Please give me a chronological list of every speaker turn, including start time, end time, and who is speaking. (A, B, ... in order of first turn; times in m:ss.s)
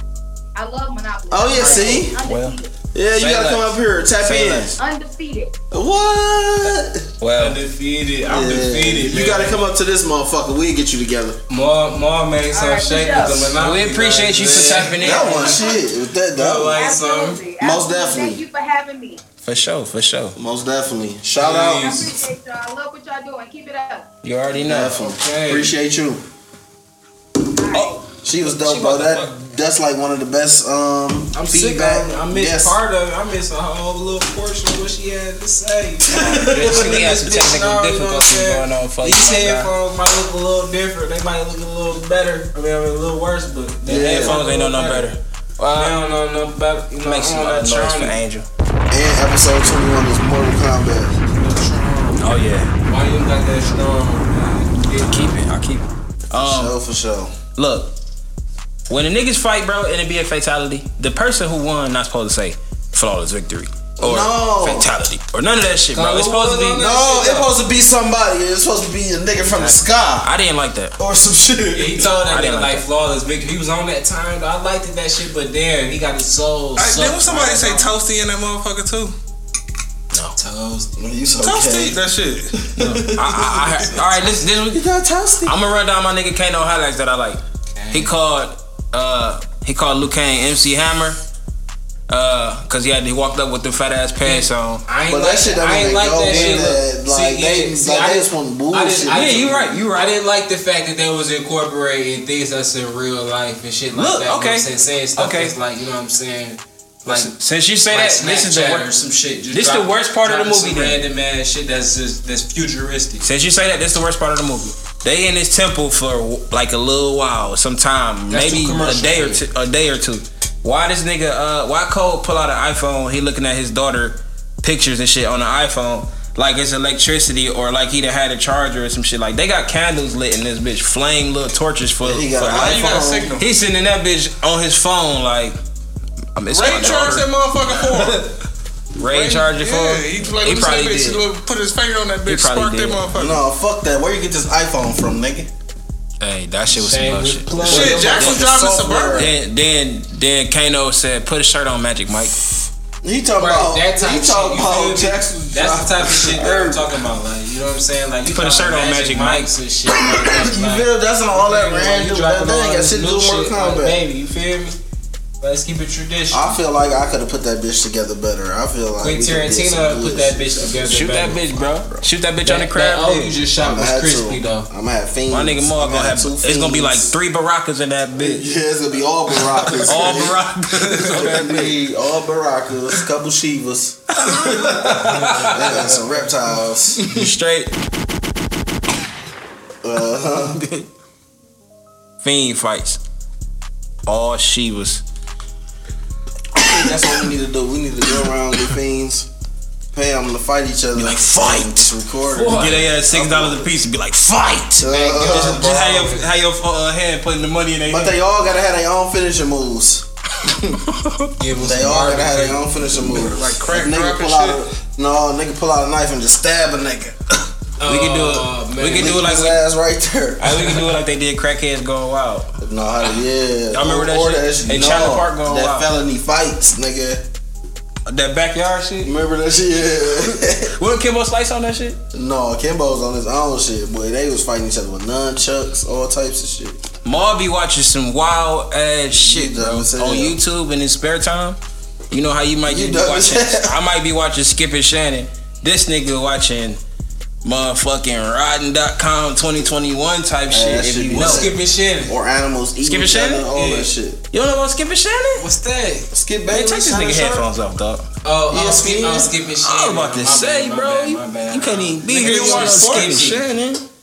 0:00.6-0:02.7 A
0:01.3-0:02.2 B
0:01.6-0:02.0 C
0:02.2-0:02.6 D
0:02.9-0:04.7 B
0:03.2-0:04.8 D
0:04.8-0:05.5 A
0:05.7-0:07.1 B
0:07.2-0:07.6 D
0:07.4-0:09.6 C
0:08.3-0:11.4 B
0:11.5-0:15.7 C
0:12.5-0:13.5 A
0:13.6-0:15.4 D
0:15.0-0:16.8 B
0:15.3-0:15.6 A
0:16.4-0:17.4 C
0:16.8-0:19.2 A
0:17.6-0:18.4 B
0:19.4-0:20.4 D
0:20.4-0:22.1 B
0:21.4-0:22.2 C
0:21.8-0:24.1 A
0:24.2-0:25.0 D
0:24.6-0:26.2 B
0:25.0-0:25.7 C
0:27.6-0:28.0 A
0:27.7-0:29.3 D
0:28.2-0:32.8 B
0:31.3-0:45.2 C
0:36.1-0:36.9 B
0:36.5-0:39.7 D
0:43.9-0:44.4 B
0:43.9-0:46.0 D
0:45.8-0:48.2 C
0:47.0-0:48.5 D
0:48.9-0:51.1 B
0:51.3-0:52.2 C
0:52.2-0:52.7 D
0:52.8-0:55.3 C
0:55.1-0:56.8 D
0:56.3-0:57.4 B
0:57.6-0:57.9 D
0:58.9-1:06.9 D
1:04.0-1:04.9 B
1:05.9-1:07.5 C
1:06.7-1:10.3 B
1:09.4-1:11.0 D
1:11.0-1:12.1 B
1:11.7-1:18.0 C
1:12.2-1:12.8 D
1:16.8-1:19.2 E
1:20.4-1:20.9 C
1:21.0-1:22.0 B
1:21.4-1:22.6 E
1:22.6-1:23.4 B
1:23.0-1:24.8 D
1:23.4-1:24.0 E
1:24.7-1:25.5 B
1:25.4-1:27.4 D
1:27.7-1:28.1 C
1:27.9-1:31.2 D
1:32.1-1:34.8 D
1:34.2-1:47.3 C
1:35.1-1:39.5 B
1:36.3-1:36.6 D
1:39.1-1:40.2 D
1:43.9-1:44.7 D
1:45.2-1:45.5 D
1:47.0-1:48.9 D
1:47.9-1:53.3 C
1:49.5-1:51.0 D
1:53.2-2:15.6 D
1:58.3-1:59.4 C
2:12.0-2:13.3 B
2:12.4-2:13.4 E
2:16.4-2:18.3 D
2:16.5-2:18.3 E
2:19.0-2:21.2 D
2:19.0-2:23.4 E
2:22.3-2:23.2 D
2:23.2-2:25.5 B
2:26.2-2:28.6 D
2:26.7-2:28.2 C
2:27.7-2:29.3 E
2:27.7-2:29.3 B
2:29.1-2:32.4 D
2:33.0-2:37.0 B
2:33.4-2:44.8 C
2:38.3-2:39.5 D
2:39.9-2:44.0 B
2:45.4-2:46.6 C
2:46.3-2:52.1 B
2:49.0-2:51.5 C
2:50.9-2:53.4 D
2:52.4-2:54.7 C
2:53.6-2:57.1 B
2:55.3-2:58.4 D
2:58.2-3:07.3 B
2:59.8-3:01.8 D
3:04.1-3:05.9 D
3:05.8-3:06.2 C
3:07.0-3:07.7 D
3:09.8-3:10.6 B
3:10.6-3:10.9 D
3:12.2-3:13.0 D
3:14.1-3:15.0 D
3:16.5-3:19.3 B
3:19.9-3:23.7 B
3:21.0-3:21.9 D
3:22.3-3:22.8 C
3:22.4-3:28.2 D
3:24.8-3:25.7 B
3:24.8-3:26.2 C
3:27.9-3:30.1 B
3:30.5-3:31.3 D
3:31.4-3:32.9 C
3:31.6-3:37.4 B
3:33.0-3:34.6 E
3:37.8-3:39.3 C
3:37.9-3:39.6 D
3:38.9-3:40.8 B
3:40.4-3:42.5 D
3:42.6-3:47.3 B
3:43.7-3:45.9 D
3:48.1-3:49.1 D
3:49.0-3:50.7 B
3:50.6-3:52.0 D
3:52.1-3:56.8 B
3:57.0-4:01.6 D
3:59.2-4:00.4 B
4:02.1-4:06.8 D
4:02.7-4:03.8 B
4:07.4-4:11.5 D
4:10.5-4:14.2 B
4:11.1-4:12.1 C
4:12.8-4:13.5 D
4:13.5-4:13.9 C
4:14.3-4:15.4 D
4:15.4-4:16.1 C
4:16.1-4:17.5 B
4:16.5-4:18.1 D
4:18.2-4:23.5 C
4:18.5-4:19.3 B
4:19.6-4:23.8 D
4:22.1-4:23.2 B